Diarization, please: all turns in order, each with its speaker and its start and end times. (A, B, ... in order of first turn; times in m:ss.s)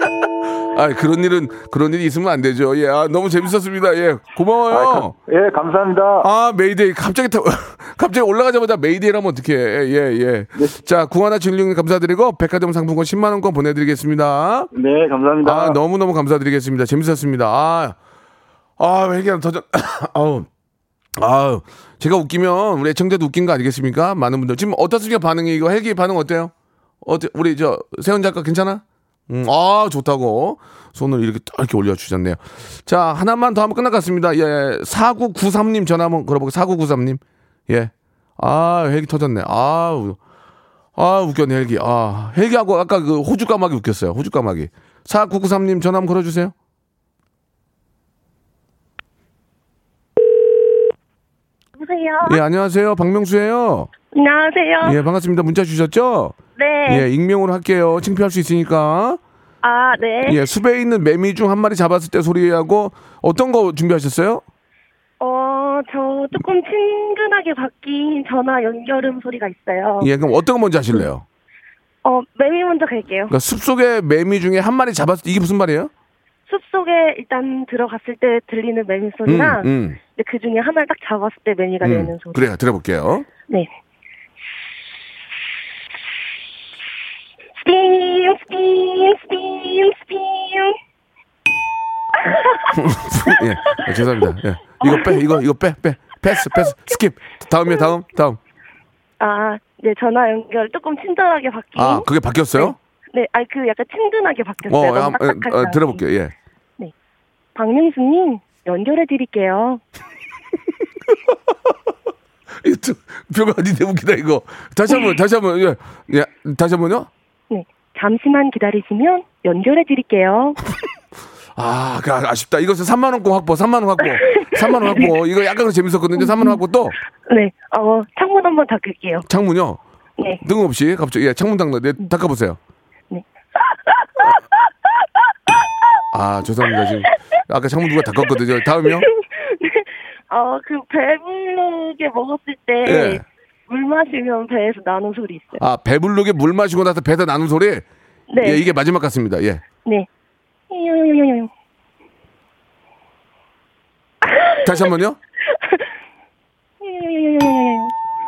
0:00.7-0:05.1 A
0:04.7-0:06.2 B
0:06.2-0:14.7 A
0:14.8-0:15.7 B
0:15.4-0:18.0 A
0:18.8-0:20.5 A
0:21.2-0:26.5 A
0:27.0-0:40.2 A
0:41.0-0:46.5 A
0:51.8-0:52.4 C
0:52.2-0:53.9 A
0:54.1-0:55.0 C
0:54.8-0:59.2 A
0:56.6-0:57.1 C
0:59.6-1:00.4 C
1:00.2-1:04.4 A
1:05.2-1:10.1 C
1:10.0-1:11.2 A
1:12.0-1:13.3 C
1:13.3-1:15.9 A
1:16.5-1:22.4 C
1:19.2-1:20.0 A
1:21.8-1:23.3 A
1:27.6-1:30.8 C
1:32.2-1:32.7 C
1:32.7-1:38.4 A
1:33.3-1:34.2 C
1:34.8-1:35.2 C
1:36.4-1:37.0 C
1:39.2-1:46.0 C
1:41.7-1:42.8 A
1:44.7-1:46.3 A
1:47.6-1:49.8 C
1:52.6-1:57.1 A
1:57.5-2:00.6 C
2:01.6-2:07.0 A
2:04.2-2:05.2 C
2:06.2-2:06.6 C
2:07.3-2:09.2 C
2:09.2-2:09.8 A
2:10.4-2:12.6 A
2:13.1-2:14.4 C
2:16.1-2:19.1 A
2:16.7-2:17.1 C
2:18.8-2:25.6 C
2:22.8-2:23.2 A
2:25.6-2:27.8 A
2:28.3-2:28.6 C
2:28.4-2:29.6 A
2:30.7-2:31.5 C
2:34.2-2:34.6 C
2:34.6-2:35.2 A
2:36.8-2:37.9 C